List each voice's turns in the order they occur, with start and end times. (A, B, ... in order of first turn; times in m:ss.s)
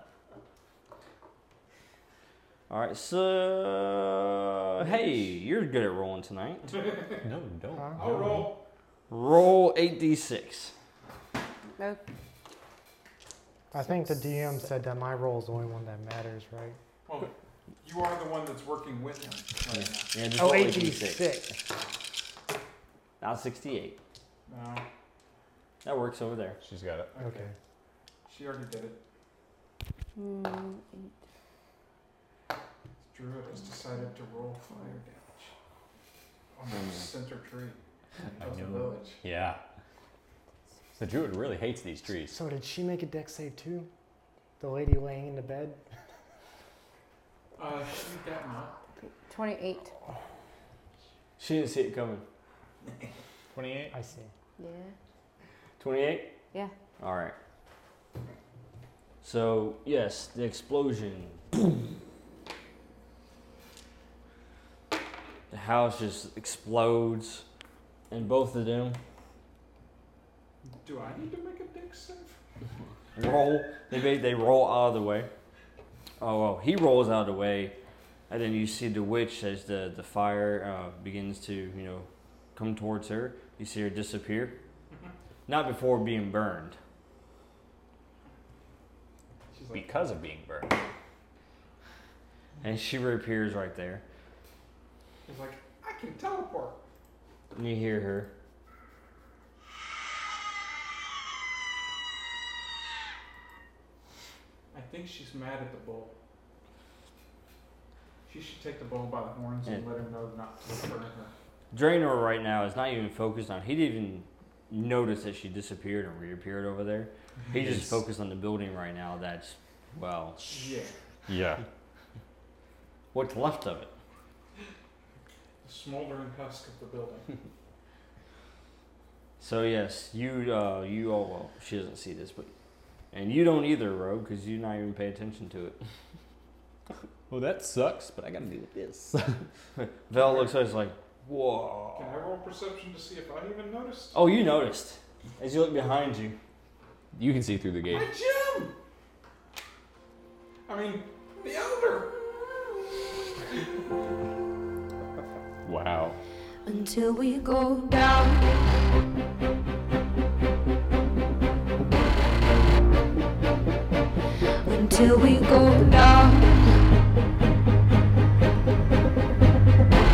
0:02.7-0:06.8 A
0:06.8-0:07.2 B
0:07.2-0:08.6 C
0:08.0-0:08.6 B
0:09.1-0:10.7 A
0:11.8-0:12.0 D
0:13.7-0:16.8 E
0:17.1-0:17.3 B
0:17.8-0:20.1 B
0:19.8-0:21.4 A
0:20.4-0:21.6 E
0:23.2-0:24.0 A
0:24.5-0:24.8 B
0:25.8-0:26.6 A
0:26.6-0:27.1 C
0:27.1-0:27.5 B
0:27.2-0:27.5 E
0:28.3-0:29.0 B
0:30.2-0:31.1 D
0:33.1-0:35.5 B
0:36.5-0:37.8 B
0:38.4-0:39.2 B
0:38.4-0:39.6 C
0:41.0-0:42.4 C
0:42.3-0:43.9 E
0:44.6-0:45.8 E
0:47.6-0:48.8 B
0:49.2-0:49.9 D
0:51.4-0:52.2 A
0:53.5-0:54.0 C
0:53.9-0:54.3 E
0:54.6-0:54.9 D
0:55.8-0:56.4 A
0:57.0-0:57.4 A
0:59.2-1:01.6 A
1:05.5-1:07.4 A
1:08.1-1:09.0 A
1:10.7-1:12.4 B
1:13.2-1:15.3 A
1:16.2-1:17.8 A
1:18.3-1:24.6 A
1:25.5-1:26.8 A
1:29.5-1:29.9 B
1:29.7-1:30.9 C
1:32.6-1:34.0 A
1:35.3-1:36.8 B
1:37.5-1:38.3 A
1:44.7-1:46.1 B
1:48.3-1:51.3 B
1:51.7-2:00.5 A
1:57.6-1:57.9 C
2:00.4-2:00.9 B
2:01.3-2:01.6 C
2:03.1-2:03.9 A
2:05.6-2:07.3 B
2:09.4-2:12.5 A
2:13.1-2:15.8 A
2:17.3-2:19.4 C
2:19.8-2:22.2 A
2:20.2-2:20.5 B
2:22.0-2:24.2 B
2:24.1-2:26.4 A
2:27.1-2:28.1 C
2:27.9-2:28.8 B
2:30.7-2:32.8 B
2:35.6-2:36.2 C
2:36.6-2:38.6 D
2:44.6-2:46.8 D